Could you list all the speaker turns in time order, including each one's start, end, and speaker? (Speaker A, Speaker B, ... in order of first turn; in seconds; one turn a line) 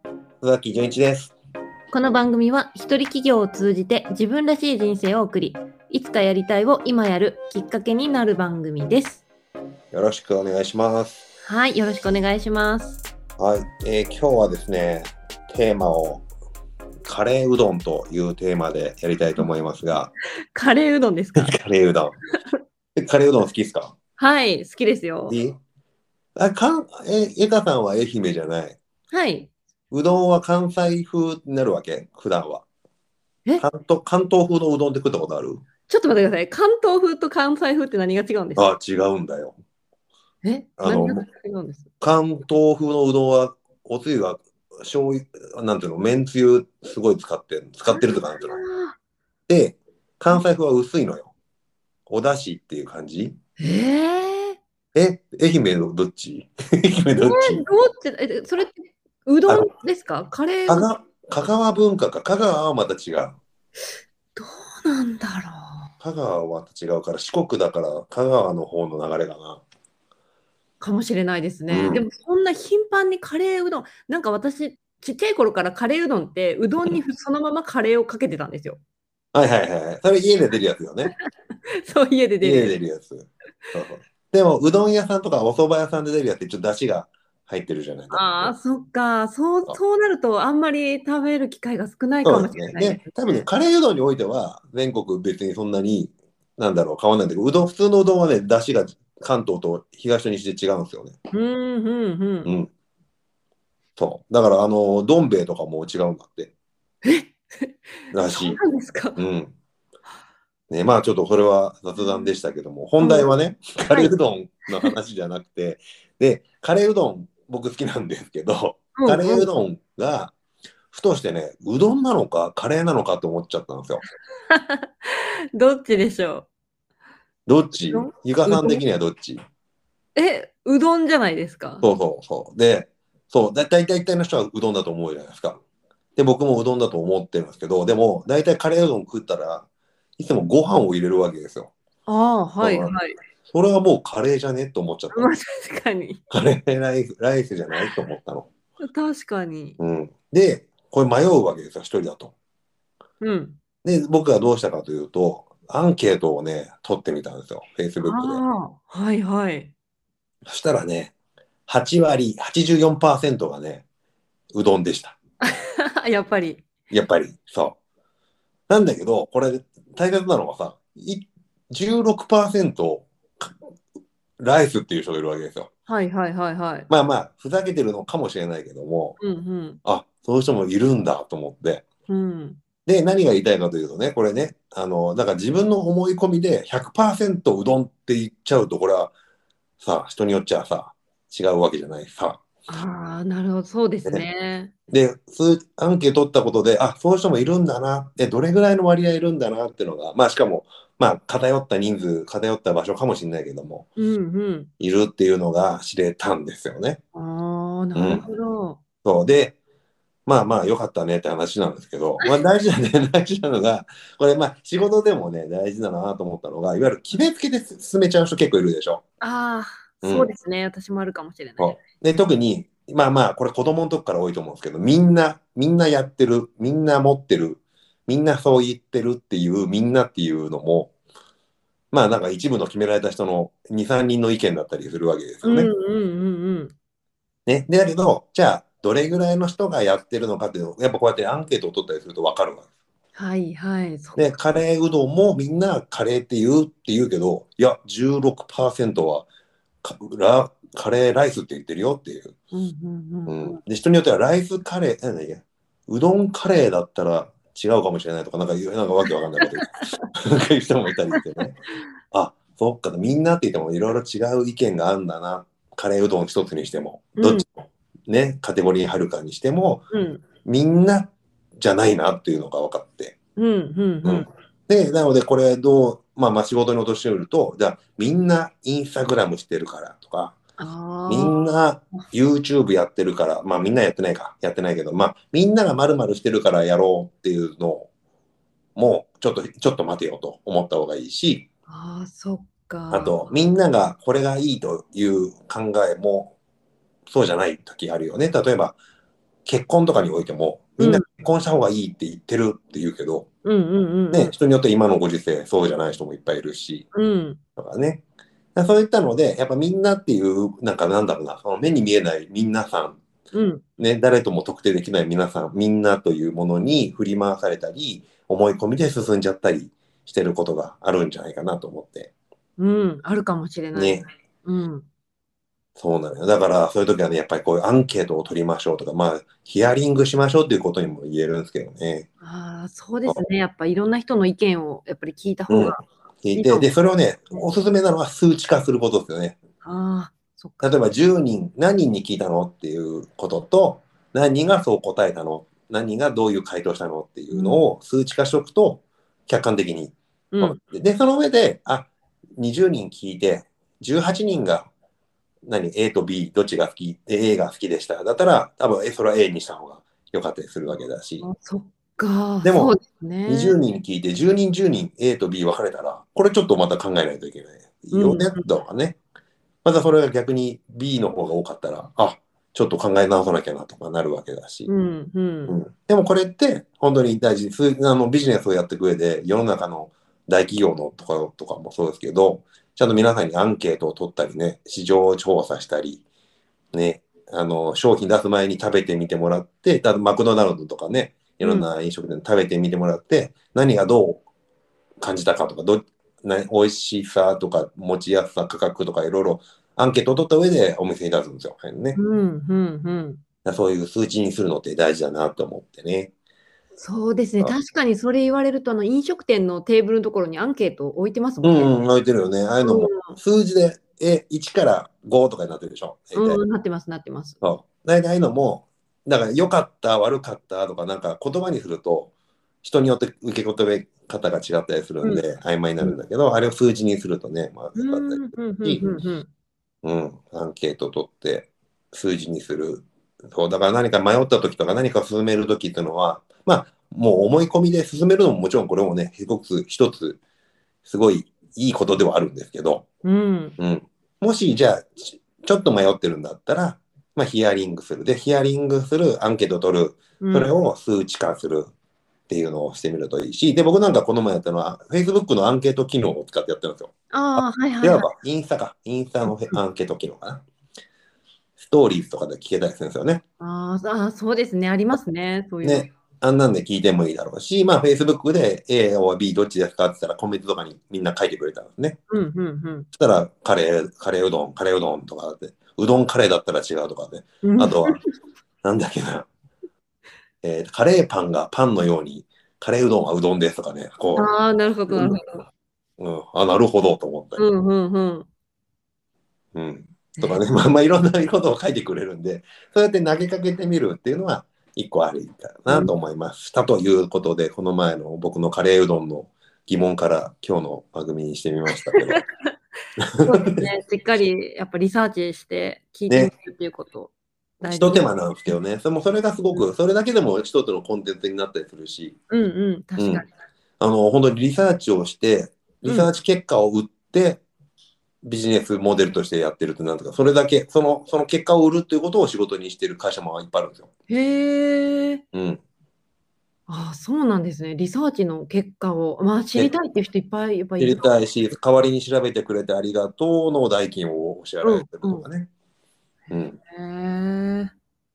Speaker A: 0.4-1.3
Speaker B: 1.9-9.2
Speaker A: 9.9-11.2
Speaker B: 11.4-13.0
Speaker A: 13.4-16.2
Speaker A: 17.1-20.1
Speaker B: 20.5-21.5
Speaker A: 21.4-22.2
Speaker A: 22.9-23.9
Speaker B: 24.2-25.4
Speaker A: 25.3-25.6
Speaker A: 26.4-28.8
Speaker B: 29.1-29.5
Speaker A: 29.9-32.6
Speaker A: 33.6-35.6
Speaker B: 35.9-38.7
Speaker A: 38.5-39.6
Speaker B: 40.4-41.9
Speaker A: 40.8-41.2
Speaker A: 42.0-48.6
Speaker B: 47.9-49.0
Speaker A: 49.5-51.3
Speaker A: 52.1-53.4
Speaker B: 53.6-54.6
Speaker A: 54.9-57.6
Speaker B: 57.2-60.9
Speaker A: 60.7-63.4
Speaker B: 64.3-65.9
Speaker A: 66.0-69.6
Speaker B: 70.8-78.8
Speaker A: 71.7-72.0
Speaker A: 79.3-81.1
Speaker B: 81.8-82.8
Speaker A: 82.4-88.5
Speaker B: 88.1-93.5
Speaker A: 92.2-101.1
Speaker B: 101.3-102.5
Speaker A: 102.4-102.7
Speaker A: 104.0-106.5
Speaker B: 107.0-109.2
Speaker A: 108.1-108.6
Speaker A: 109.2-109.5
Speaker A: 110.7-120.3
Speaker B: 112.0-112.3
Speaker B: 113.0-113.3
Speaker B: 118.9-119.5
Speaker A: 120.9-124.0
Speaker B: 124.5-126.5
Speaker A: 127.5-129.4
Speaker B: 127.9-128.8
Speaker B: 130.1-131.8
Speaker A: 131.8-135.6
Speaker A: 136.2-139.7
Speaker A: 140.2-141.7
Speaker B: 142.1-143.2
Speaker A: 142.6-142.9
Speaker A: 143.5-145.3
Speaker B: 145.1-146.2
Speaker A: 146.3-148.5
Speaker B: 148.8-149.8
Speaker A: 149.8-152.3
Speaker B: 153.2-153.6
Speaker A: 153.8-158.4
Speaker B: 158.0-159.7
Speaker A: 160.4-161.1
Speaker A: 161.7-163.8
Speaker A: 164.5-165.2
Speaker B: 165.5-166.6
Speaker A: 166.9-167.8
Speaker A: 168.7-173.6
Speaker A: 174.4-175.7
Speaker B: 175.9-176.9
Speaker A: 176.9-179.2
Speaker B: 179.2-179.8
Speaker A: 179.8-181.8
Speaker B: 182.1-182.6
Speaker A: 182.8-189.1
Speaker A: 189.8-192.4
Speaker B: 192.7-194.7
Speaker A: 194.9-203.9
Speaker B: 204.0-204.7
Speaker A: 204.8-207.0
Speaker B: 207.1-208.8
Speaker A: 207.9-208.2
Speaker A: 209.0-209.6
Speaker A: 210.2-219.0
Speaker B: 219.2-221.8
Speaker A: 220.0-220.3
Speaker A: 221.6-230.9
Speaker A: 231.9-235.7
Speaker B: 235.4-236.7
Speaker A: 237.4-242.7
Speaker B: 243.1-244.3
Speaker A: 244.2-249.3
Speaker A: 249.8-252.3
Speaker B: 252.5-253.6
Speaker A: 253.3-261.6
Speaker A: 262.1-269.9
Speaker B: 267.1-267.4
Speaker B: 269.9-270.2
Speaker A: 270.4-273.1
Speaker B: 273.4-274.3
Speaker A: 274.0-280.4
Speaker B: 280.6-281.4
Speaker A: 281.1-287.9
Speaker A: 288.8-291.5
Speaker B: 291.7-293.2
Speaker A: 292.9-296.4
Speaker A: 297.1-298.8
Speaker A: 299.4-303.3
Speaker B: 300.8-301.0
Speaker B: 303.4-304.3
Speaker A: 304.1-306.9
Speaker B: 306.9-307.4
Speaker A: 307.6-308.0
Speaker A: 308.5-313.0
Speaker B: 313.3-313.6
Speaker A: 313.8-322.1
Speaker B: 322.6-324.9
Speaker A: 323.7-324.1
Speaker A: 325.8-332.1
Speaker B: 332.2-335.8
Speaker A: 335.5-339.4
Speaker B: 336.3-336.7
Speaker B: 339.6-340.9
Speaker A: 340.6-354.7
Speaker B: 347.3-347.6
Speaker B: 350.3-350.6
Speaker A: 355.4-361.2
Speaker B: 361.2-363.6
Speaker A: 362.4-369.0
Speaker B: 367.9-368.4
Speaker A: 369.6-374.7
Speaker B: 374.7-375.6
Speaker A: 375.5-386.0
Speaker A: 386.7-394.2
Speaker B: 391.4-391.7
Speaker A: 395.0-402.0
Speaker B: 401.9-403.2
Speaker A: 403.4-406.1
Speaker B: 406.8-411.7
Speaker A: 411.4-416.4
Speaker B: 412.6-413.1
Speaker B: 416.1-417.4
Speaker A: 417.4-428.9
Speaker B: 427.8-429.3
Speaker A: 429.8-440.2
Speaker A: 440.8-442.9
Speaker B: 443.0-443.6
Speaker A: 443.6-451.7
Speaker B: 450.2-450.6
Speaker A: 452.3-460.4
Speaker B: 457.1-458.1
Speaker B: 459.2-459.6
Speaker A: 461.6-463.2
Speaker B: 463.4-465.9
Speaker A: 465.6-472.0
Speaker B: 472.1-472.9
Speaker A: 472.9-478.0
Speaker B: 477.4-478.0
Speaker A: 478.6-479.3
Speaker A: 480.4-484.3
Speaker B: 484.1-485.4
Speaker A: 484.9-485.2
Speaker A: 486.0-487.4
Speaker B: 487.4-488.3
Speaker A: 489.5-502.2
Speaker B: 490.2-490.4
Speaker A: 503.0-503.7
Speaker B: 503.2-508.1
Speaker A: 507.6-512.2
Speaker B: 512.3-513.3
Speaker A: 513.0-513.3
Speaker A: 513.8-517.4
Speaker B: 515.8-516.1
Speaker A: 518.2-523.9
Speaker B: 524.1-525.2
Speaker A: 525.3-525.6
Speaker B: 526.7-531.1
Speaker A: 530.8-535.5
Speaker B: 534.6-535.2
Speaker A: 536.3-536.6
Speaker B: 536.6-537.7